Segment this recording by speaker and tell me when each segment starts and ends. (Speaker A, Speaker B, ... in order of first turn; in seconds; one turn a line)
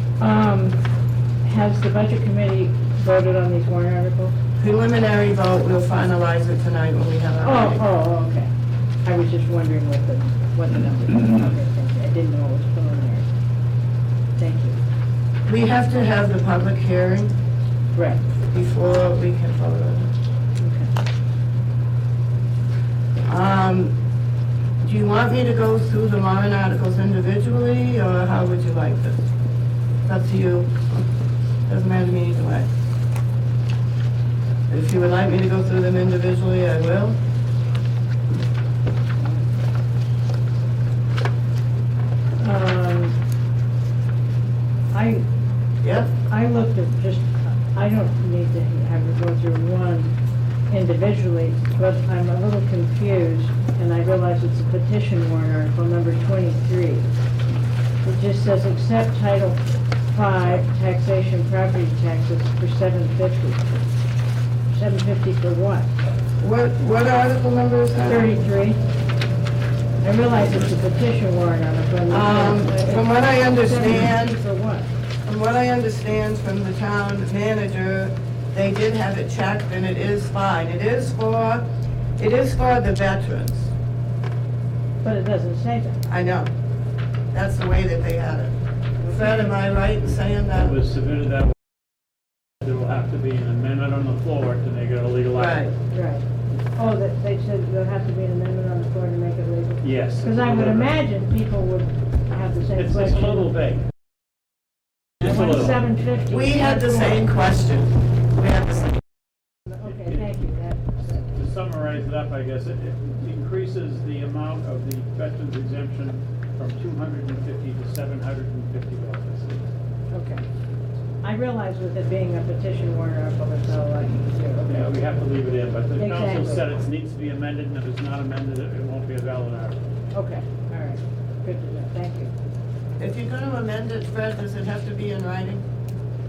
Speaker A: 0.2-0.8
Speaker A: 1.4-4.3
Speaker B: 4.6-7.8
Speaker A: 7.4-8.5
Speaker A: 9.0-13.3
Speaker A: 14.4-14.8
Speaker B: 15.5-17.3
Speaker A: 17.9-18.2
Speaker B: 18.5-20.1
Speaker A: 20.6-20.9
Speaker B: 23.2-23.9
Speaker B: 24.8-29.1
Speaker B: 30.1-31.1
Speaker B: 31.7-32.7
Speaker B: 34.7-37.2
Speaker A: 39.2-39.5
Speaker A: 42.4-43.1
Speaker A: 44.9-45.2
Speaker B: 45.8-46.1
Speaker A: 46.2-50.1
Speaker A: 50.7-57.1
Speaker A: 58.0-63.8
Speaker A: 64.7-65.9
Speaker B: 66.4-68.4
Speaker A: 68.0-68.8
Speaker A: 70.0-74.9
Speaker B: 72.1-74.4
Speaker B: 75.2-81.7
Speaker B: 82.2-83.7
Speaker A: 85.0-86.0
Speaker B: 86.1-86.5
Speaker B: 87.3-88.5
Speaker A: 89.0-89.5
Speaker B: 89.1-90.7
Speaker C: 90.5-91.6
Speaker C: 92.6-95.7
Speaker B: 95.3-95.7
Speaker A: 95.9-103.5
Speaker C: 99.8-100.9
Speaker C: 102.8-103.9
Speaker C: 105.2-105.8
Speaker A: 105.2-107.2
Speaker B: 106.3-109.0
Speaker A: 109.7-111.2
Speaker C: 110.0-110.3
Speaker C: 111.3-119.7
Speaker A: 120.1-120.5
Speaker A: 121.2-124.7
Speaker C: 124.6-129.8
Speaker A: 126.0-126.7
Speaker A: 130.1-132.3
Speaker B: 133.0-135.6